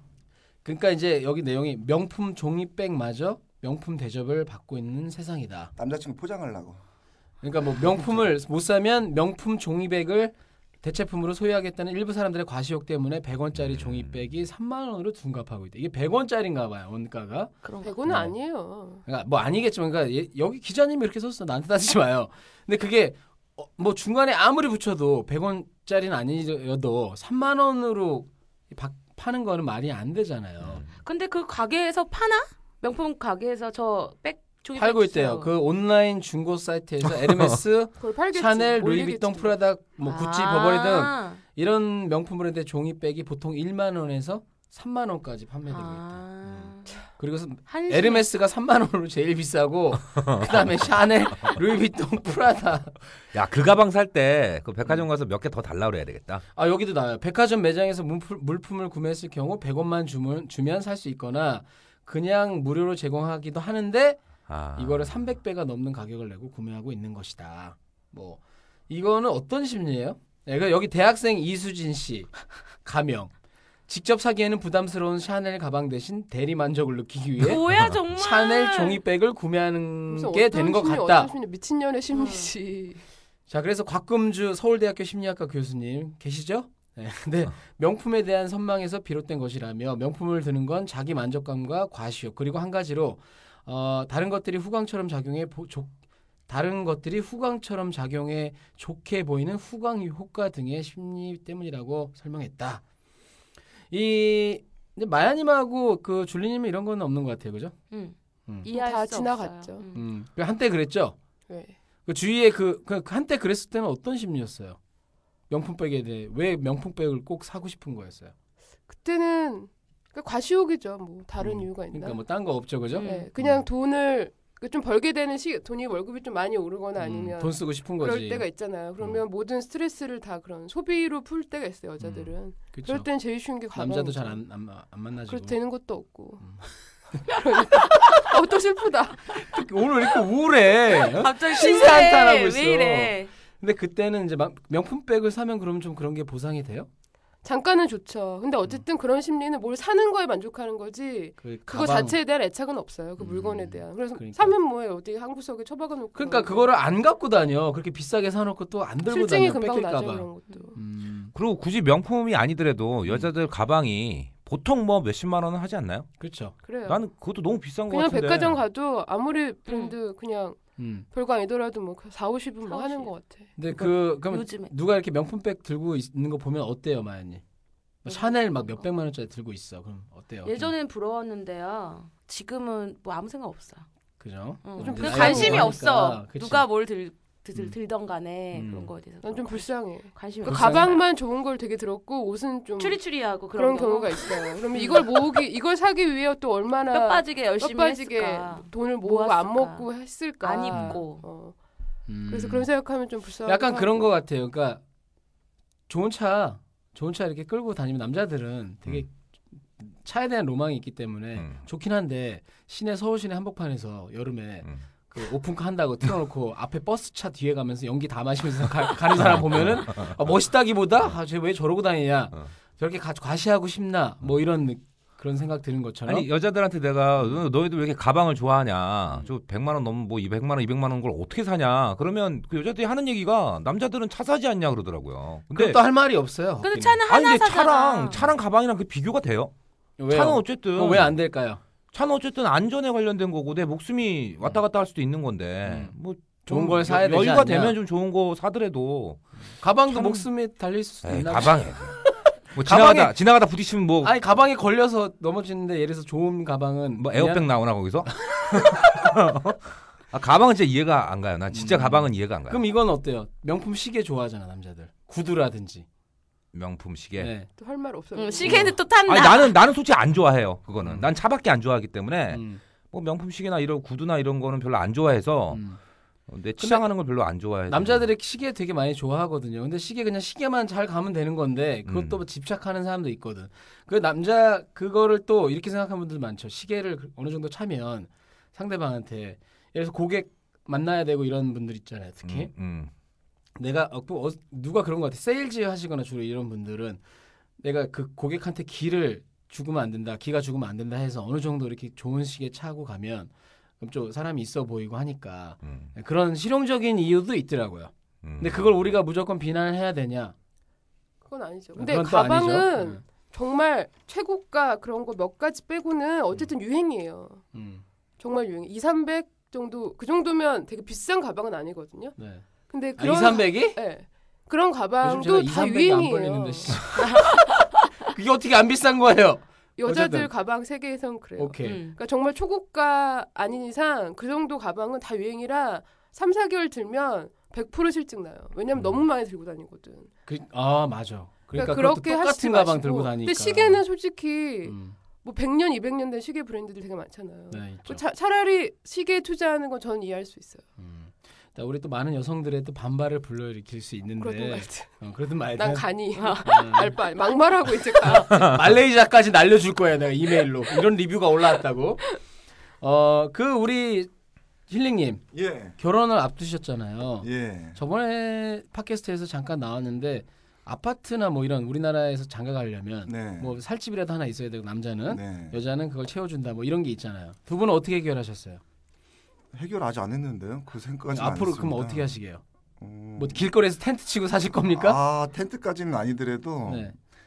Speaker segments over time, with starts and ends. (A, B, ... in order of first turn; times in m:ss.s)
0:00.6-0:05.7 A
0:05.8-0:06.8 B
0:07.4-0:17.5 A
0:13.6-0:14.3 C
0:17.6-0:17.9 D
0:17.8-0:19.0 E
0:18.0-0:18.3 A
0:19.0-0:30.8 A
0:30.6-0:30.9 C
0:31.0-0:35.5 D
0:34.7-0:52.9 A
0:38.0-0:39.6 E
0:40.0-0:41.4 D
0:45.7-0:46.9 D
0:47.7-0:48.3 D
0:53.3-0:56.4 C
0:56.5-1:04.2 A
1:04.5-1:05.4 C
1:04.8-1:12.3 A
1:12.8-1:13.3 A
1:13.9-1:17.6 A
1:17.4-1:19.0 D
1:18.1-1:21.3 A
1:20.1-1:23.0 E
1:22.1-1:22.5 D
1:23.5-1:35.9 A
1:36.5-1:42.8 A
1:43.9-1:47.7 A
1:47.9-1:50.0 D
1:48.7-1:49.8 E
1:49.9-1:51.2 A
1:51.5-1:51.8 E
1:52.0-1:54.8 A
1:55.5-1:58.3 A
1:58.9-2:02.2 E
2:01.4-2:03.6 A
2:02.9-2:14.4 E
2:03.0-2:03.3 D
2:07.0-2:08.4 A
2:12.0-2:13.1 A
2:13.7-2:15.6 A
2:15.3-2:16.4 E
2:16.4-2:16.6 A
2:17.3-2:19.4 E
2:19.3-2:26.9 A
2:20.9-2:23.3 D
2:27.4-2:36.7 E
2:31.4-2:32.2 A
2:33.2-2:34.6 A
2:36.1-2:41.3 A
2:39.1-2:40.8 E
2:41.3-2:46.1 C
2:46.2-2:46.5 A
2:46.6-2:47.0 E
2:46.8-2:48.6 C
2:47.9-2:50.6 E
2:49.7-2:50.0 D
2:50.8-2:51.1 A
2:51.1-2:53.5 E
2:52.6-2:53.1 D
2:53.6-2:57.4 A
2:53.7-2:54.7 D
2:58.0-3:00.7 A
2:58.1-2:58.6 D
3:00.4-3:03.8 D
3:04.2-3:06.6 A
3:04.6-3:11.0 D
3:04.8-3:05.8 E
3:08.5-3:08.9 A
3:09.2-3:13.0 E
3:10.4-3:11.0 A
3:12.8-3:15.4 D
3:13.5-3:21.5 E
3:16.9-3:19.9 D
3:20.4-3:21.2 D
3:20.7-3:21.0 A
3:22.1-3:22.7 A
3:22.3-3:24.1 E
3:23.4-3:24.8 A
3:25.9-3:29.1 A
3:29.8-3:46.3 A
3:31.4-3:31.6 C
3:39.2-3:40.1 C
3:46.1-3:55.8 C
3:55.5-3:57.0 A
3:56.6-3:58.2 D
3:57.0-3:59.5 C
4:00.0-4:01.6 A
4:00.1-4:01.2 C
4:01.9-4:09.2 C
4:05.6-4:07.8 A
4:09.6-4:13.2 A
4:09.9-4:10.3 C
4:11.0-4:12.0 C
4:12.5-4:14.1 C
4:14.0-4:17.5 A
4:17.0-4:22.6 C
4:18.1-4:18.9 A
4:21.5-4:25.8 A
4:26.5-4:27.3 C
4:27.2-4:27.5 A
4:27.5-4:28.8 E
4:28.1-4:29.6 D
4:28.4-4:28.7 A
4:28.5-4:35.6 C
4:30.8-4:31.1 A
4:32.3-4:32.6 A
4:35.5-4:35.8 A
4:36.3-4:38.1 C
4:36.6-4:36.8 A
4:37.7-4:52.5 A
4:41.8-4:42.2 C
4:52.2-4:52.9 C
4:53.6-4:57.0 A
4:57.6-5:10.3 A
5:05.6-5:05.9 C
5:08.2-5:09.0 C
5:11.2-5:17.4 E
5:11.8-5:13.0 A
5:17.5-5:17.8 A
5:18.2-5:22.2 E
5:22.2-5:22.4 A
5:22.7-5:26.9 E
5:23.0-5:23.8 A
5:25.0-5:30.3 A
5:27.0-5:27.4 D
5:29.8-5:40.1 E
5:31.4-5:31.8 A
5:31.6-5:32.0 D
5:38.8-5:39.0 A
5:40.3-5:43.8 A
5:41.5-5:50.6 E
5:44.6-5:45.0 A
5:47.5-5:48.0 A
5:50.8-5:56.9 A
5:54.2-5:54.9 E
5:55.5-5:58.5 E
5:56.1-5:56.5 D
5:58.0-6:02.1 A
6:02.8-6:04.1 A
6:04.7-6:05.2 A
6:05.3-6:05.8 B
6:05.8-6:18.6 A
6:07.2-6:07.8 B
6:13.1-6:13.6 B
6:15.1-6:15.6 B
6:19.5-6:22.1 B
6:21.1-6:22.4 A
6:22.8-6:23.5 B
6:23.2-6:25.0 A
6:24.7-6:26.9 B
6:26.6-6:26.9 A